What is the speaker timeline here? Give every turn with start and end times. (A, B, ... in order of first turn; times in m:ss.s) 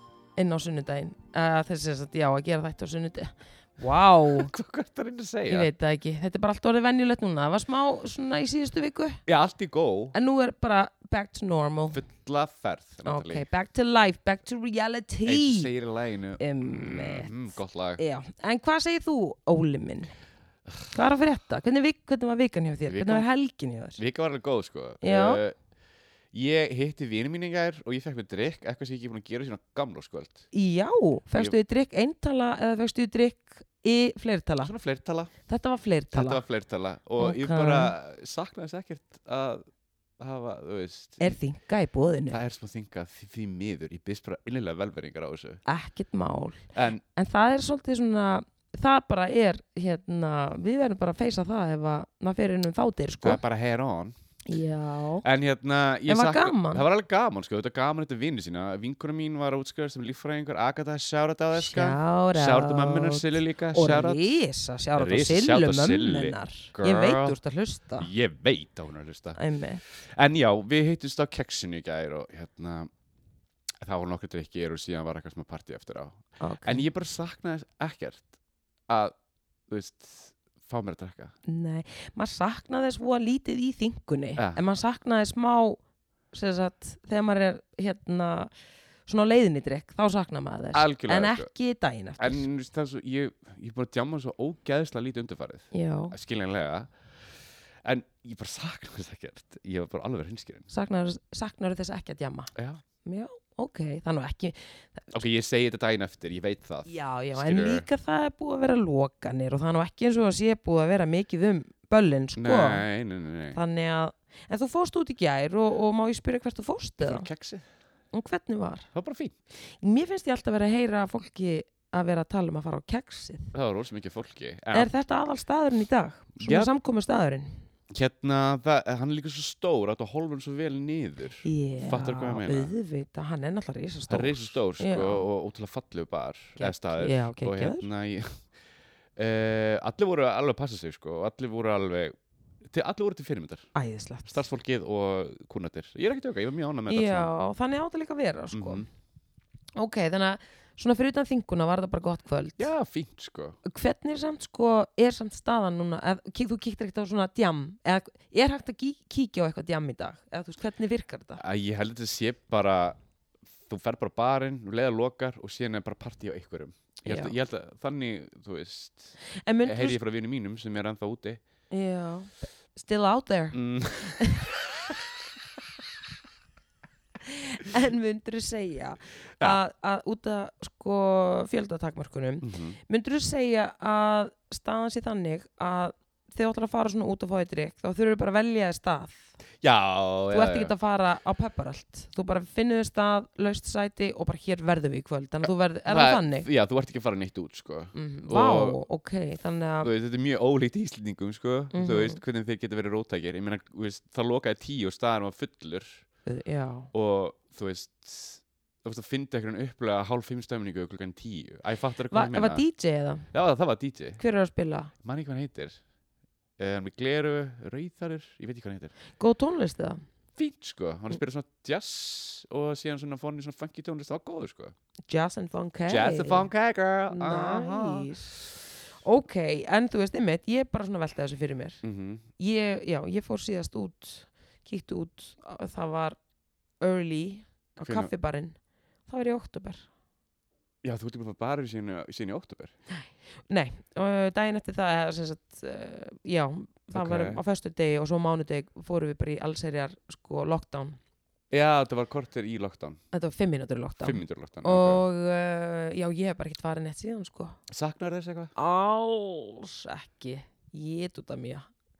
0:00.4-0:04.5 A
0:04.3-0:05.7 B
0:05.5-0:09.2 A
0:09.3-0:10.1 B
0:10.1-0:12.0 A
0:11.9-0:13.4 B
0:13.0-0:15.7 A
0:15.2-0:18.0 B
0:16.4-0:17.3 A
0:18.0-0:20.1 A
0:20.9-0:24.0 A
0:22.9-0:23.2 B
0:24.0-0:25.5 B
0:25.0-0:25.4 A
0:26.3-0:30.4 B
0:30.5-0:34.7 A
0:34.6-0:35.3 B
0:35.5-0:36.4 A
0:36.1-0:39.6 B
0:37.2-0:37.9 A
0:40.2-0:41.4 B
0:41.2-0:42.4 A
0:42.3-0:45.6 B
0:45.6-0:53.4 A
0:46.7-0:47.0 B
0:53.2-0:54.1 B
0:54.4-0:55.2 A
0:55.2-1:04.3 B
0:56.1-0:56.8 A
1:01.5-1:08.1 A
1:05.0-1:07.4 B
1:08.0-1:12.9 B
1:09.4-1:09.8 A
1:13.8-1:18.3 B
1:16.4-1:16.8 A
1:18.9-1:19.1 B
1:19.7-1:21.3 B
1:21.4-1:25.8 A
1:26.3-1:28.5 A
1:29.1-1:32.4 A
1:30.7-1:31.5 B
1:32.2-1:40.7 B
1:35.7-1:36.1 A
1:40.7-1:42.5 A
1:42.5-1:42.8 B
1:43.0-1:45.2 A
1:45.1-1:47.8 B
1:46.8-1:52.8 A
1:52.4-1:53.6 B
1:53.5-1:57.3 A
1:57.0-1:57.6 B
1:58.1-1:58.9 A
1:58.9-1:59.3 B
1:59.8-2:03.5 A
2:03.5-2:04.9 B
2:04.7-2:07.6 A
2:06.4-2:06.7 B
2:07.9-2:12.7 B
2:11.4-2:15.3 A
2:14.1-2:18.5 B
2:16.6-2:17.9 A
2:19.2-2:22.1 B
2:22.7-2:23.7 B
2:23.7-2:24.4 A
2:24.2-2:27.3 B
2:26.9-2:28.9 A
2:28.5-2:28.8 B
2:29.8-2:32.7 A
2:32.6-2:33.6 B
2:33.6-2:41.4 A
2:41.4-2:43.0 B
2:43.6-2:51.4 B
2:47.0-2:47.3 A
2:49.3-2:50.0 A
2:51.7-2:54.5 A
2:53.5-2:54.3 B
2:57.2-3:09.3 A
3:02.4-3:02.8 B
3:09.6-3:10.7 B
3:10.3-3:16.5 A
3:15.9-3:18.8 B
3:17.9-3:19.9 A
3:19.8-3:26.0 B
3:21.7-3:22.2 A
3:26.2-3:26.9 A
3:26.9-3:32.6 B
3:32.1-3:33.3 A
3:33.3-3:34.2 B
3:34.2-3:34.9 A
3:35.0-3:35.8 B
3:36.6-3:38.9 B
3:39.2-3:40.0 A
3:40.4-3:44.7 B
3:45.1-3:46.5 A
3:45.9-3:48.1 B
3:47.1-3:51.8 A
3:51.8-3:52.2 B
3:52.4-3:56.2 A
3:56.8-3:59.9 A
3:57.8-3:58.1 B
4:00.8-4:02.7 B
4:02.9-4:11.0 A
4:06.9-4:07.4 B
4:11.5-4:13.0 B
4:13.1-4:17.6 A
4:14.0-4:15.0 B
4:17.7-4:18.5 B
4:18.6-4:21.7 A